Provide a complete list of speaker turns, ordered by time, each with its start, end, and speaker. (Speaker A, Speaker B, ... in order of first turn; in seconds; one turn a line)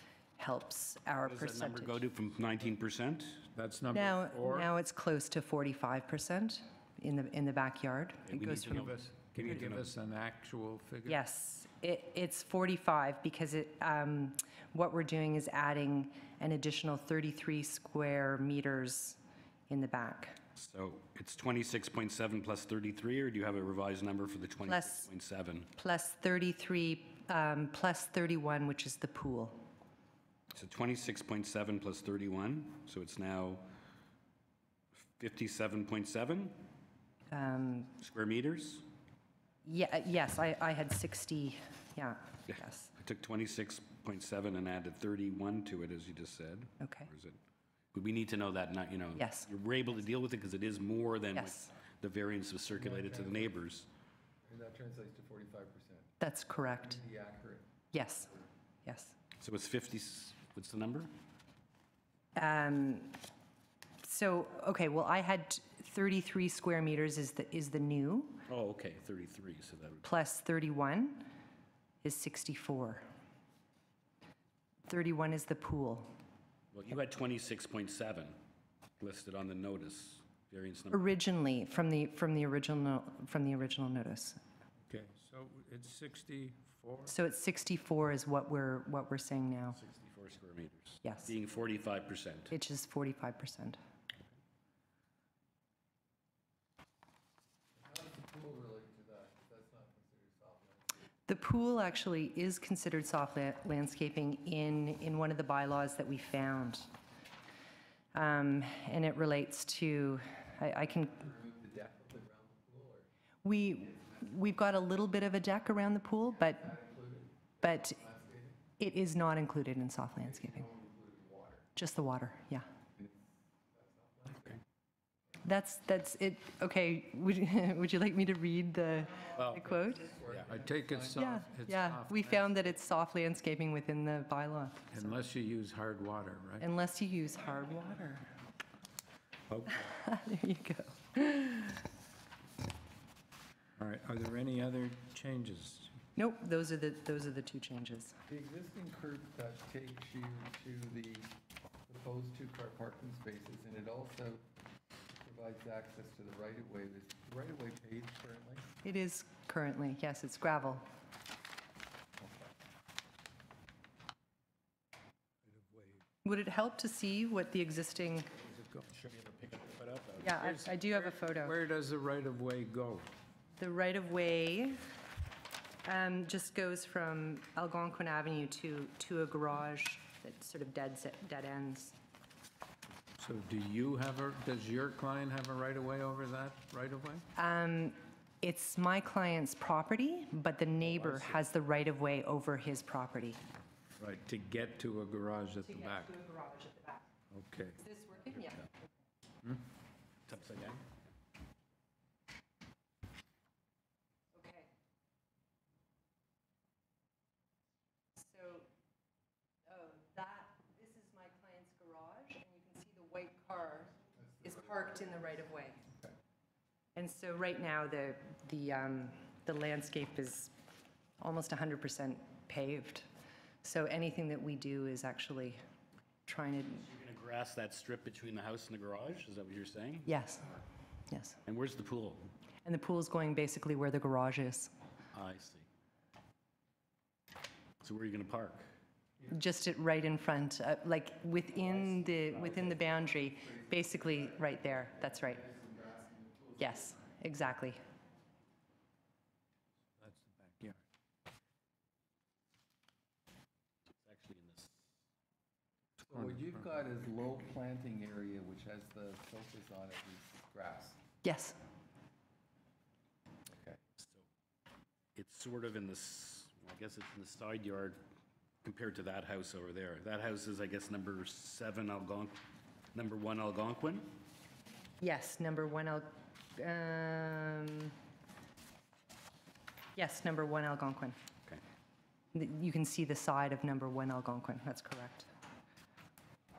Speaker A: 0.4-2.0
Speaker B: 1.2-3.4
Speaker C: 3.5-4.7
Speaker A: 3.9-8.9
Speaker B: 8.2-9.9
Speaker C: 8.7-11.2
Speaker A: 11.1-20.4
Speaker B: 20.6-25.7
Speaker A: 24.6-25.1
Speaker A: 25.7-29.6
Speaker B: 30.5-33.7
Speaker B: 35.2-36.6
Speaker A: 37.3-37.9
Speaker B: 38.0-38.8
Speaker A: 39.6-42.9
Speaker B: 42.5-47.4
Speaker A: 46.8-47.1
Speaker B: 47.9-53.9
Speaker A: 49.1-49.5
Speaker A: 51.3-51.7
Speaker D: 52.7-53.5
Speaker D: 54.5-56.1
Speaker A: 56.2-57.0
Speaker D: 56.6-57.7
Speaker A: 57.9-58.3
Speaker A: 58.8-59.1
Speaker B: 59.4-61.1
Speaker A: 62.3-63.1
Speaker A: 64.0-68.4
Speaker B: 68.5-70.0
Speaker A: 70.0-71.3
Speaker A: 72.0-73.0
Speaker A: 74.9-76.1
Speaker B: 76.7-78.4
Speaker B: 79.0-81.1
Speaker A: 80.9-84.4
Speaker C: 84.9-87.1
Speaker A: 87.1-89.8
Speaker B: 89.7-92.5
Speaker A: 91.0-91.3
Speaker A: 92.5-93.8
Speaker D: 97.8-101.0
Speaker A: 101.3-106.9
Speaker A: 108.1-111.3
Speaker D: 111.1-113.1
Speaker A: 113.4-116.7
Speaker D: 116.5-118.6
Speaker A: 117.6-118.0
Speaker A: 118.8-120.6
Speaker D: 120.2-121.7
Speaker A: 121.7-122.7
Speaker D: 123.0-124.6
Speaker A: 125.4-130.1
Speaker C: 129.3-129.7
Speaker D: 129.6-131.3
Speaker C: 130.3-132.5
Speaker A: 131.2-135.1
Speaker C: 134.9-136.7
Speaker A: 136.6-138.3
Speaker C: 139.5-139.8
Speaker A: 139.7-141.8
Speaker C: 143.8-145.9
Speaker A: 146.2-148.2
Speaker D: 148.3-151.3
Speaker D: 151.9-154.4
Speaker D: 155.2-158.7
Speaker A: 158.8-160.8
Speaker D: 162.2-162.5
Speaker C: 165.4-166.0
Speaker A: 166.2-168.3
Speaker C: 168.4-168.9
Speaker B: 168.9-170.3
Speaker A: 170.2-171.6
Speaker C: 170.2-173.1
Speaker A: 173.6-174.8
Speaker A: 175.8-181.9
Speaker C: 183.2-187.2
Speaker A: 187.3-193.4
Speaker C: 190.9-191.3
Speaker C: 194.0-196.1
Speaker A: 195.6-197.0
Speaker C: 197.3-197.8
Speaker A: 197.8-198.7
Speaker B: 198.4-198.6
Speaker B: 200.3-200.9
Speaker A: 204.3-204.7
Speaker A: 208.2-208.7
Speaker A: 209.7-215.8
Speaker D: 214.3-214.8
Speaker A: 216.9-220.5
Speaker A: 221.2-223.1
Speaker A: 223.6-225.6
Speaker A: 226.2-226.8
Speaker B: 226.8-230.1
Speaker A: 230.1-230.6
Speaker A: 231.1-231.4
Speaker B: 231.4-232.3
Speaker A: 232.6-234.7
Speaker B: 235.1-235.7
Speaker B: 237.8-238.7
Speaker A: 239.3-245.4
Speaker D: 241.6-246.7
Speaker A: 246.6-247.8
Speaker C: 250.0-250.8
Speaker B: 254.0-254.9
Speaker D: 256.0-261.0
Speaker C: 256.1-256.6
Speaker A: 261.2-261.6
Speaker D: 263.5-263.8
Speaker B: 264.0-264.2
Speaker B: 265.1-268.0
Speaker B: 268.6-272.4
Speaker B: 272.9-274.1
Speaker A: 275.0-277.9
Speaker A: 279.9-281.2
Speaker A: 282.3-285.3